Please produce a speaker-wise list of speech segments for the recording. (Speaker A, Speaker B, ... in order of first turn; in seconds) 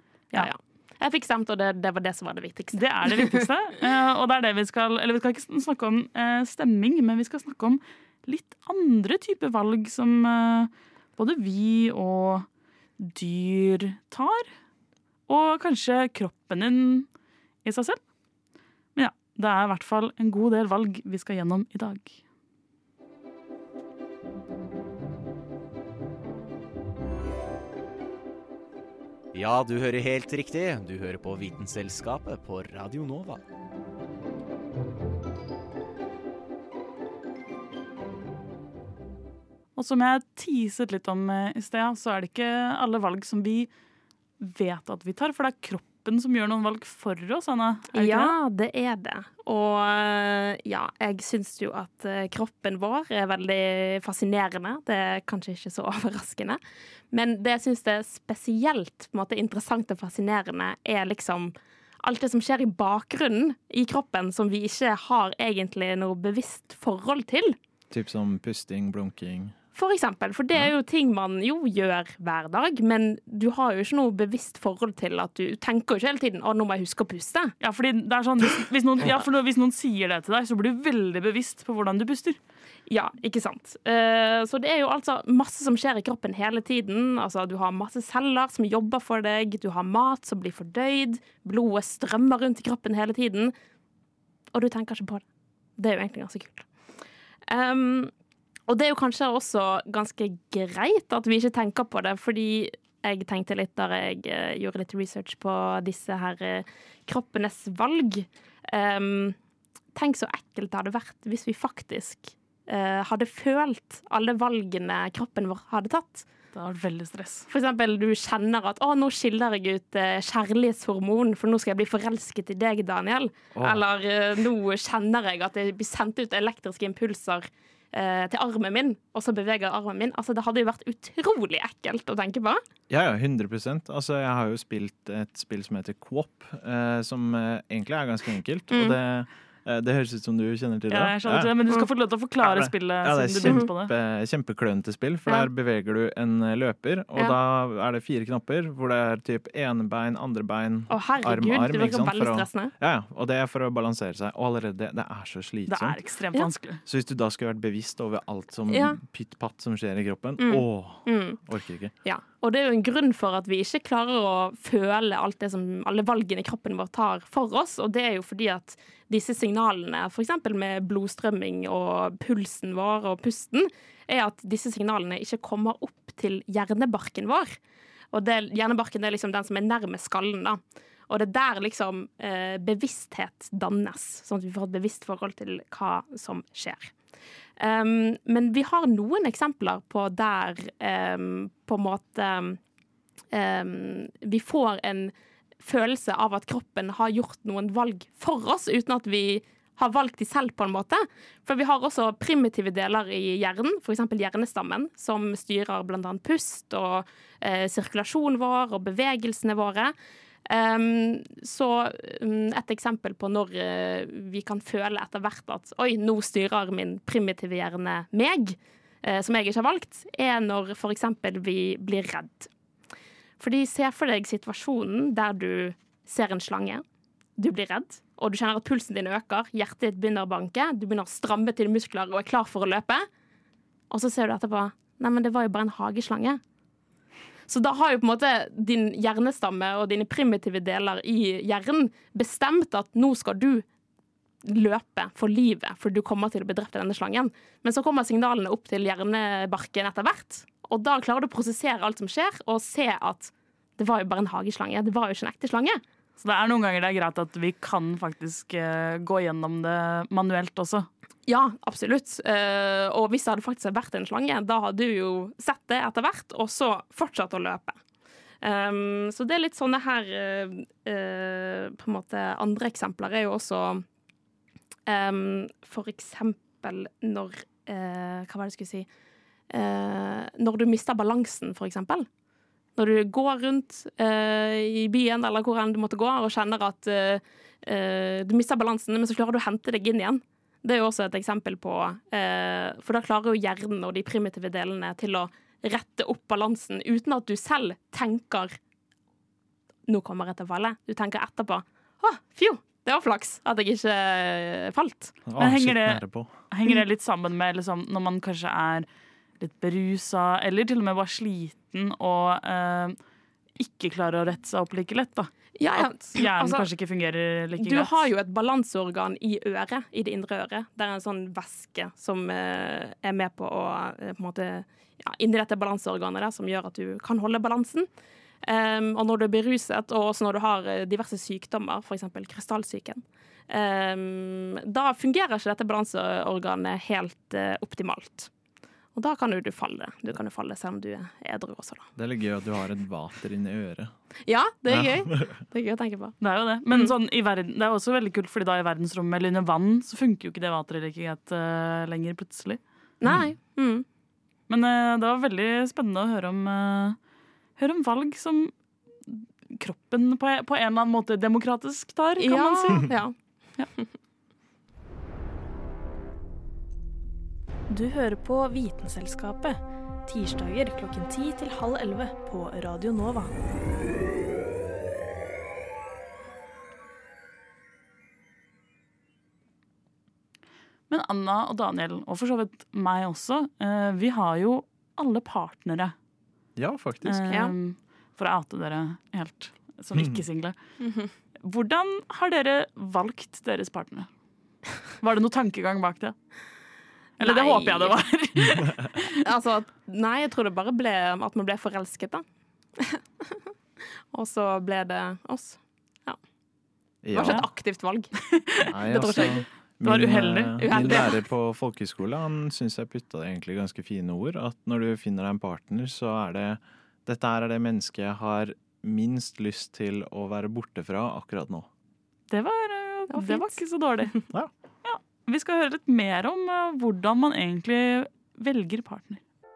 Speaker A: 0.3-3.4, 47.9-56.6, 57.1-67.6, 69.7-77.5, 82.9-93.5, 94.5-95.2, 95.8-96.7, 97.5-98.1, 98.7-109.3, 109.9-116.2, 117.5-132.6, 138.7-139.0, 150.9-152.7, 158.7-159.0, 160.4-161.4, 162.0-177.6, 178.1-186.9, 187.6-192.6, 193.3-209.9, 210.5-222.5, 223.4-226.8, 227.4-233.1, 233.9-236.4, 237.5-243.6, 244.4-255.8, 261.3-267.8, 268.4-273.8, 274.9-278.9, 279.5-282.1, 282.8-298.6, 299.9-305.2, 315.6-316.7, 317.6-327.9, 328.4-338.3, 338.9-341.9, 344.3-346.2, 353.0-353.8, 362.2-363.1, 390.8-391.1, 397.2-398.0, 399.2-402.2, 402.8-403.5, 404.1-406.2, 407.1-408.2, 408.8-409.4, 410.6-411.2, 423.1-424.2
Speaker B: 2.7-12.5, 13.0-14.5, 15.3-17.1, 17.6-18.0, 18.9-22.2, 39.8-43.7, 44.4-48.3, 77.6-82.4, 116.5-117.5, 140.9-143.9, 155.7-156.8, 256.2-260.9, 305.4-308.9, 309.4-312.9, 313.6-318.1, 346.2-352.6, 354.5-357.0, 357.6-358.5, 359.1-362.9, 380.9-385.9, 387.0-390.5, 391.4-394.1, 395.0-396.1, 397.2-399.1, 409.8-411.0, 422.3-424.2, 424.8-429.2
Speaker C: 29.3-33.4
Speaker D: 67.9-69.5, 123.5-123.8, 132.9-141.8, 142.4-156.0, 156.8-161.9, 305.2-306.3, 341.9-343.9, 344.7-345.4, 353.0-353.3, 386.6-387.4, 407.0-407.5, 408.7-421.7
Speaker E: 367.7-373.3